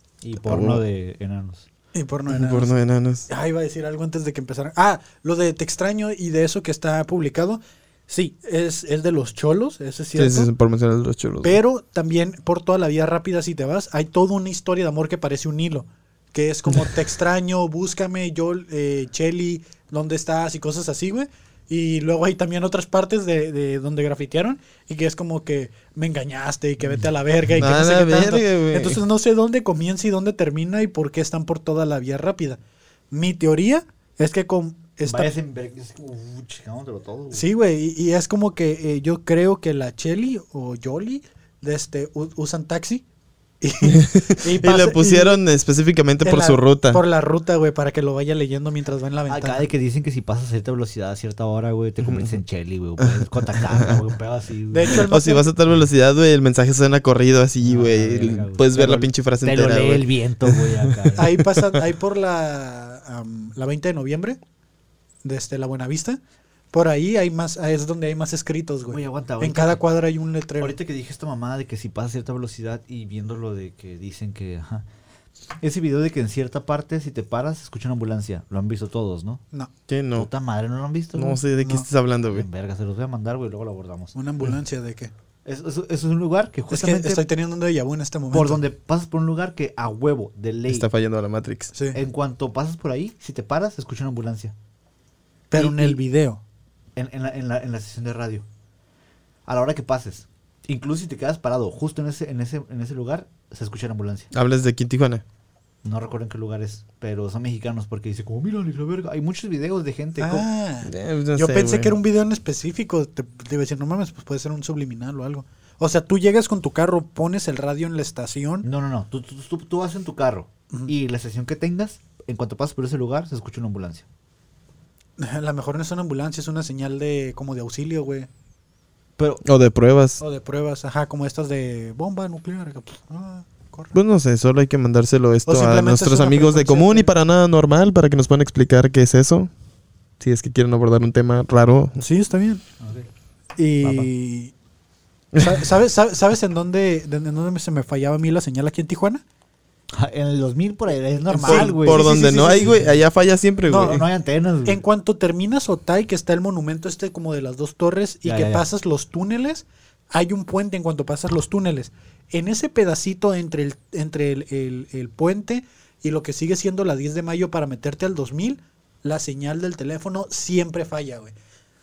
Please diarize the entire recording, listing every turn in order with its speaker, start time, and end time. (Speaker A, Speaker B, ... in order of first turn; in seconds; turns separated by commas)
Speaker A: 0.2-1.6, Speaker B: 0.4-0.8, Speaker C: 1.9-2.7, Speaker B: 2.3-3.3, Speaker C: 3.3-10.5, Speaker B: 10.2-11.6, Speaker C: 11.4-32.6, Speaker B: 27.6-29.0, Speaker C: 33.1-35.3, Speaker A: 35.0-37.5, Speaker C: 37.3-43.0, Speaker C: 43.6-45.4, Speaker B: 43.9-47.0, Speaker C: 46.2-49.7, Speaker A: 49.3-55.1, Speaker B: 52.0-52.4, Speaker B: 53.0-54.0, Speaker C: 54.7-55.5, Speaker B: 55.0-61.3, Speaker A: 57.6-61.3, Speaker C: 61.1-64.4, Speaker C: 65.2-66.2, Speaker C: 66.7-70.8, Speaker A: 68.9-69.8, Speaker A: 70.6-74.9, Speaker A: 75.6-79.4, Speaker B: 79.9-80.3, Speaker A: 80.1-84.1, Speaker B: 81.1-82.5, Speaker C: 84.1-85.1, Speaker A: 85.4-87.2, Speaker C: 86.7-88.6, Speaker A: 88.3-90.9, Speaker B: 90.7-91.7, Speaker C: 91.7-92.0, Speaker A: 91.9-94.5, Speaker C: 95.5-96.4, Speaker A: 95.5-96.0, Speaker A: 96.9-98.5, Speaker A: 99.5-104.3, Speaker B: 104.3-105.2, Speaker A: 105.8-110.5, Speaker C: 110.2-118.7, Speaker B: 110.8-112.0, Speaker A: 118.6-124.0, Speaker C: 125.2-128.3, Speaker A: 129.2-129.4, Speaker B: 129.4-130.2, Speaker C: 130.2-133.9, Speaker B: 133.9-139.5, Speaker C: 135.5-137.1, Speaker B: 140.2-142.0, Speaker C: 142.0-142.6, Speaker A: 142.8-143.1, Speaker C: 143.6-144.5, Speaker A: 143.8-144.1, Speaker B: 145.3-145.6, Speaker C: 145.4-149.2, Speaker A: 149.9-152.9, Speaker C: 151.3-152.7, Speaker B: 151.4-154.0, Speaker C: 153.7-154.0, Speaker A: 153.7-154.8, Speaker C: 154.6-171.3, Speaker A: 158.2-158.6